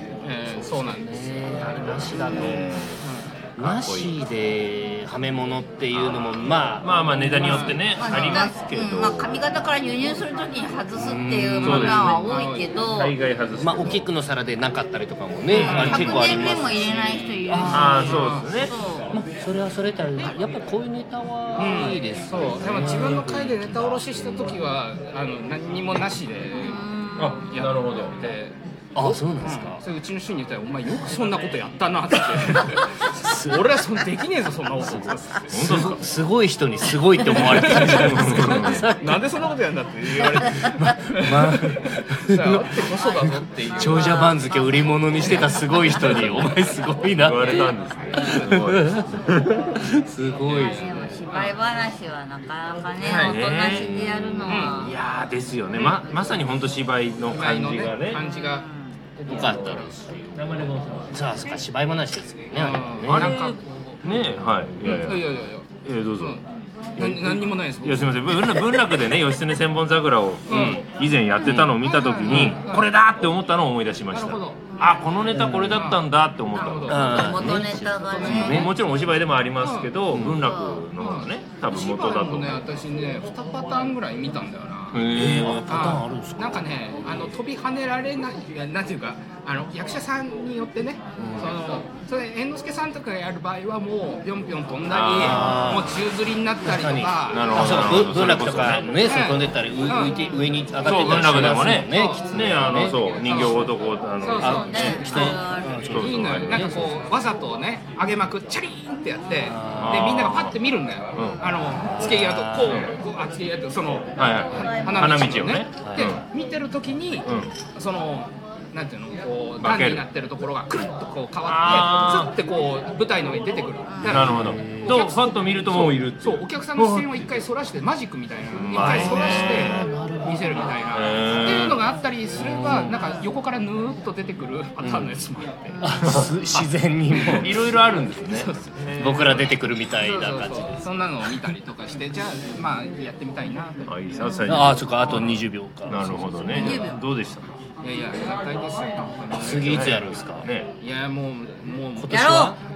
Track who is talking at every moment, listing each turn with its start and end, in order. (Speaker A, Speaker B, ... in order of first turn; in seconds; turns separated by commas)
Speaker A: 0.2-1.2, Speaker B: 0.4-2.8, Speaker C: 1.9-3.0, Speaker D: 2.1-2.8, Speaker A: 3.0-3.3, Speaker C: 3.6-4.1, Speaker B: 3.6-7.8, Speaker C: 5.9-9.6, Speaker A: 7.4-7.7, Speaker D: 7.5-13.1, Speaker B: 10.9-12.2, Speaker C: 11.6-12.2, Speaker A: 12.1-12.7, Speaker C: 12.9-14.1, Speaker B: 13.6-18.1, Speaker A: 15.5-16.5, Speaker C: 15.5-16.1, Speaker D: 15.8-19.1, Speaker C: 17.7-18.7, Speaker A: 17.9-18.5, Speaker B: 19.1-24.7, Speaker A: 21.6-26.8, Speaker D: 26.5-27.5, Speaker C: 27.2-28.3, Speaker A: 27.4-35.6, Speaker B: 28.9-29.8, Speaker B: 33.2-33.6, Speaker B: 34.8-39.2, Speaker C: 35.5-36.0, Speaker A: 37.3-41.7, Speaker C: 37.7-38.9, Speaker B: 41.2-49.2, Speaker A: 42.3-44.4, Speaker D: 43.8-46.4, Speaker A: 45.2-45.5, Speaker C: 45.9-46.5, Speaker C: 47.1-49.6, Speaker B: 49.7-51.2, Speaker A: 50.4-51.6, Speaker D: 50.5-55.0, Speaker A: 53.0-53.4, Speaker C: 53.2-58.2, Speaker B: 53.7-54.1, Speaker A: 54.5-54.8, Speaker A: 57.3-60.0, Speaker D: 58.2-58.9, Speaker B: 59.2-63.4, Speaker C: 60.3-61.2, Speaker A: 62.5-64.0, Speaker C: 63.0-65.3, Speaker B: 64.1-65.1, Speaker A: 64.8-65.7, Speaker C: 65.8-66.4, Speaker A: 67.0-68.5, Speaker C: 67.0-77.4, Speaker A: 70.5-70.8, Speaker B: 71.4-71.7, Speaker A: 71.6-72.8, Speaker B: 72.3-72.6, Speaker A: 74.1-74.8, Speaker B: 75.3-75.9, Speaker A: 75.7-76.0, Speaker A: 76.5-77.2, Speaker B: 76.8-78.7, Speaker D: 77.1-78.7, Speaker C: 78.2-82.6, Speaker A: 79.6-79.9, Speaker B: 80.1-80.4, Speaker D: 80.4-80.8, Speaker A: 81.0-85.0, Speaker C: 84.9-85.8, Speaker B: 85.1-87.3, Speaker A: 85.7-97.9, Speaker B: 91.2-91.6, Speaker C: 94.9-95.5, Speaker B: 95.2-96.0, Speaker D: 95.3-95.8, Speaker B: 96.6-103.0, Speaker C: 97.3-98.9, Speaker A: 99.0-100.3, Speaker C: 100.8-106.9, Speaker A: 101.7-103.7, Speaker A: 104.2-114.2, Speaker B: 104.4-107.0, Speaker D: 104.5-105.8, Speaker B: 109.4-110.1, Speaker C: 109.8-110.6, Speaker C: 111.2-111.4, Speaker B: 111.8-112.9, Speaker C: 112.6-112.9, Speaker C: 114.2-116.2, Speaker D: 114.2-115.5, Speaker A: 114.7-135.8, Speaker B: 115.8-116.1, Speaker C: 117.2-117.5, Speaker C: 119.6-120.0, Speaker C: 121.4-122.3, Speaker D: 123.9-124.3, Speaker C: 124.0-127.3, Speaker B: 124.0-125.0, Speaker C: 128.5-129.9, Speaker B: 128.7-130.7, Speaker C: 130.9-131.8, Speaker B: 132.3-132.9, Speaker D: 132.8-133.3, Speaker B: 134.8-135.2, Speaker D: 135.7-136.2, Speaker B: 135.8-137.7, Speaker C: 136.0-136.7, Speaker A: 137.2-137.6, Speaker C: 137.3-139.6, Speaker A: 138.2-138.7, Speaker B: 138.9-140.9, Speaker A: 139.9-143.9, Speaker C: 143.8-147.6, Speaker B: 144.5-146.9, Speaker D: 146.5-147.0, Speaker A: 147.8-150.1, Speaker B: 149.3-150.5, Speaker C: 149.3-150.7, Speaker A: 150.8-152.6, Speaker B: 152.0-152.5, Speaker D: 152.1-152.6